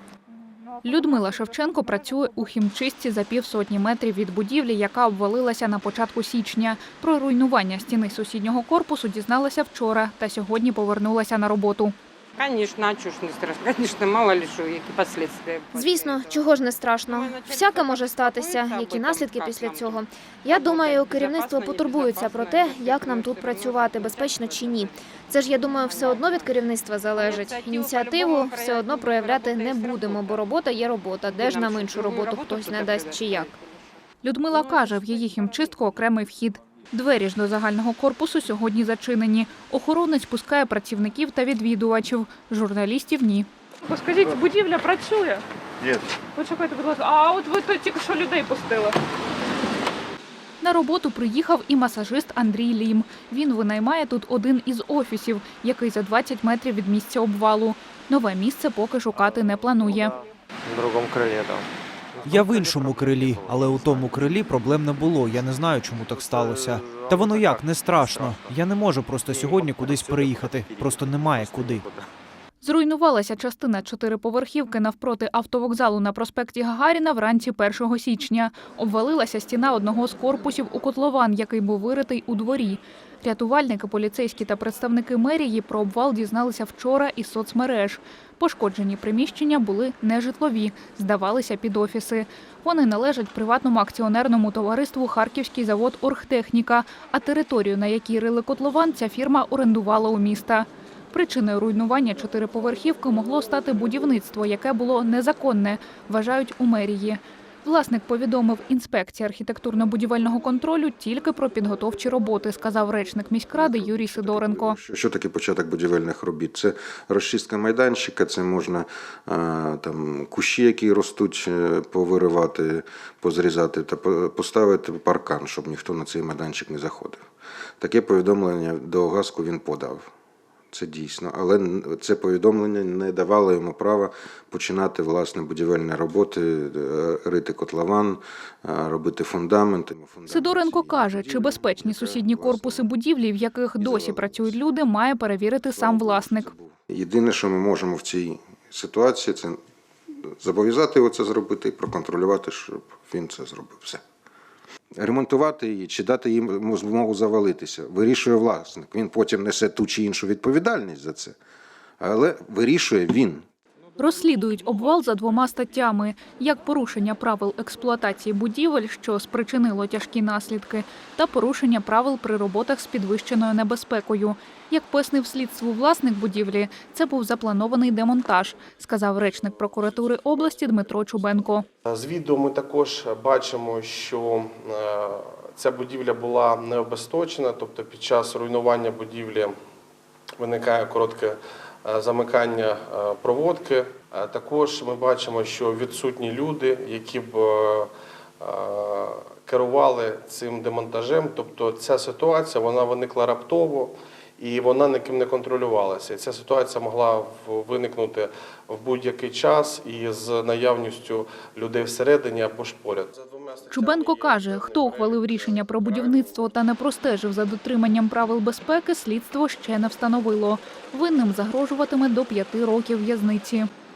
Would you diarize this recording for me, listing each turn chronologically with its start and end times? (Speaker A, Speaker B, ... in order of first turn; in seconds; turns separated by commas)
Speaker A: 0.4-2.5, Speaker B: 0.8-11.9, Speaker C: 12.4-26.6, Speaker D: 15.7-33.5, Speaker C: 27.2-30.5, Speaker C: 31.2-33.7, Speaker B: 34.2-43.5, Speaker C: 34.5-35.7, Speaker A: 43.8-45.4, Speaker A: 46.4-49.0, Speaker B: 50.6-60.1, Speaker E: 59.1-64.6, Speaker F: 62.2-71.9, Speaker E: 66.0-68.6, Speaker E: 69.2-72.1, Speaker B: 72.6-114.8, Speaker G: 113.5-127.2, Speaker G: 127.8-130.1, Speaker G: 130.7-142.9, Speaker B: 140.2-146.5, Speaker G: 143.8-144.5, Speaker G: 145.8-149.6, Speaker G: 150.2-154.0, Speaker G: 155.0-161.4, Speaker G: 162.0-163.4, Speaker B: 164.0-181.7, Speaker H: 179.3-181.3, Speaker H: 181.9-189.5, Speaker H: 190.4-216.5, Speaker B: 213.7-223.7